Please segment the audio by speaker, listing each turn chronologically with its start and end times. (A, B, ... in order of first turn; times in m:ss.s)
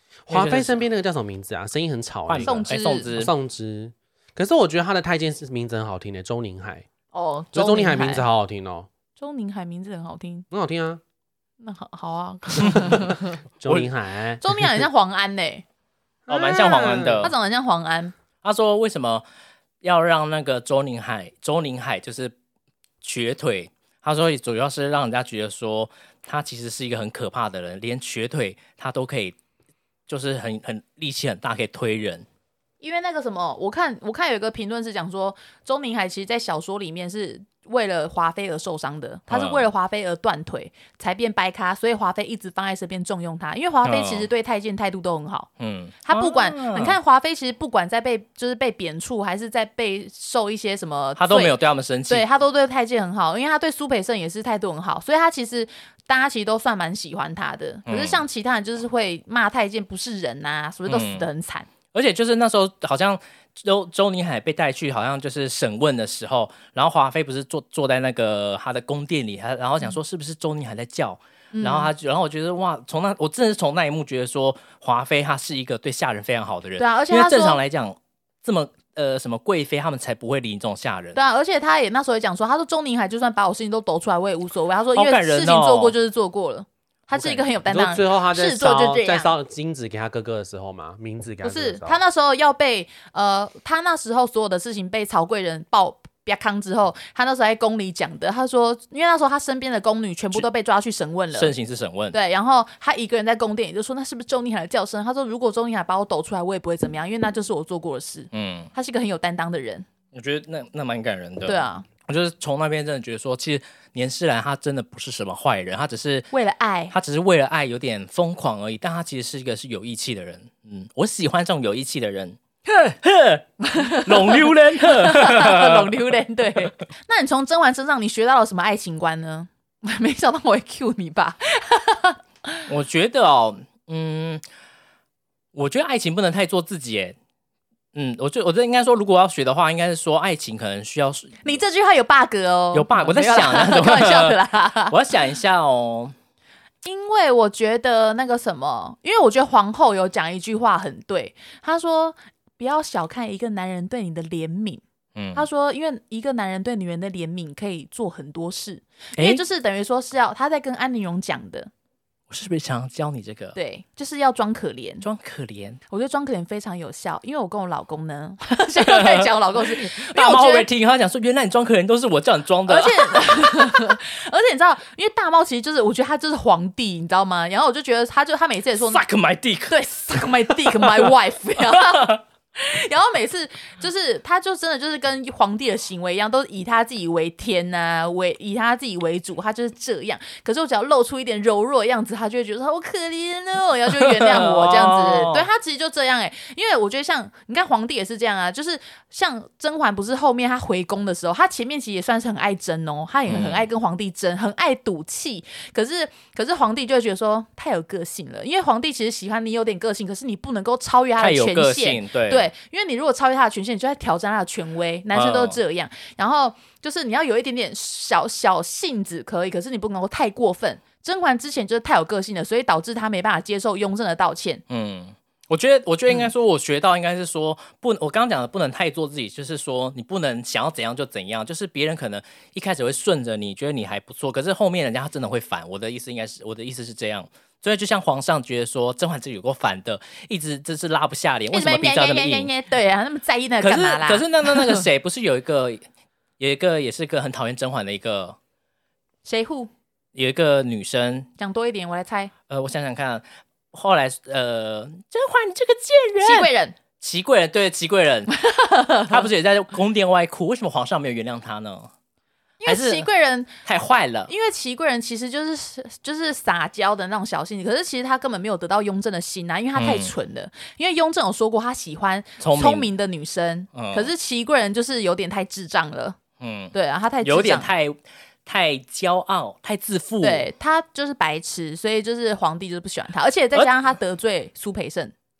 0:00.3-0:06.8 A
0:00.3-0:00.8 B
0:02.3-0:03.3 B
0:02.4-0:03.1 C
0:07.1-0:08.2 C
0:07.5-0:08.9 A
0:09.2-0:10.4 C
0:10.5-0:11.0 A
0:11.6-0:13.4 C
0:12.7-0:14.8 A
0:14.4-0:15.6 C
0:16.3-0:17.3 A
0:16.3-0:17.3 B
0:17.2-0:18.1 C
0:18.4-0:19.2 B
0:19.8-0:22.3 B
0:23.0-0:29.4 B
0:30.1-0:32.2 B
0:32.8-0:45.5 C
0:39.3-0:39.6 B
0:43.8-0:44.3 B
0:45.6-0:47.0 B
0:46.0-0:51.5 C
0:51.2-0:52.2 B
0:52.1-1:01.7 C
0:57.9-0:58.2 B
1:00.9-1:01.3 B
1:01.9-1:21.2 B
1:11.5-1:11.9 C
1:16.8-1:17.6 C
1:21.1-1:29.3 C
1:24.9-1:25.9 B
1:27.1-1:27.4 B
1:27.6-1:32.0 A
1:31.4-1:41.5 C
1:41.3-1:42.2 B
1:42.1-1:49.8 C
1:48.3-1:48.7 B
1:50.1-1:56.3 B
1:51.4-1:51.8 C
1:56.3-1:56.9 C
1:56.9-2:06.1 B
2:03.6-2:12.6 C
2:12.7-2:14.4 B
2:15.5-2:17.2 B
2:17.9-2:21.4 B
2:21.4-2:24.9 C
2:22.7-2:24.4 B
2:24.9-2:26.1 B
2:26.8-2:34.8 C
2:35.1-2:35.5 B
2:35.3-2:41.7 C
2:39.2-2:39.4 B
2:42.3-2:43.6 B
2:43.5-2:45.0 C
2:45.0-2:45.8 B
2:45.9-2:50.7 C
2:48.8-2:53.9 B
2:52.7-2:59.0 C
2:58.8-3:02.2 B
2:59.7-3:44.6 C
3:14.0-3:15.5 B
3:23.3-3:23.7 B
3:31.2-3:32.5 B
3:35.1-3:35.6 B
3:44.7-4:02.5 B
4:01.5-4:04.8 C
4:03.6-4:05.8 B
4:06.4-4:08.4 B
4:09.2-4:09.7 C
4:10.1-4:11.3 B
4:11.4-4:12.3 C
4:12.5-4:18.4 B
4:16.2-4:16.8 C
4:18.4-4:19.2 C
4:19.0-4:21.9 B
4:22.6-4:23.5 C
4:22.6-4:23.1 B
4:23.6-4:24.3 B
4:24.3-4:36.2 C
4:29.7-4:30.1 B
4:32.4-4:32.9 B
4:33.7-4:34.1 B
4:36.4-4:40.4 B
4:36.7-4:37.7 C
4:40.2-4:45.1 C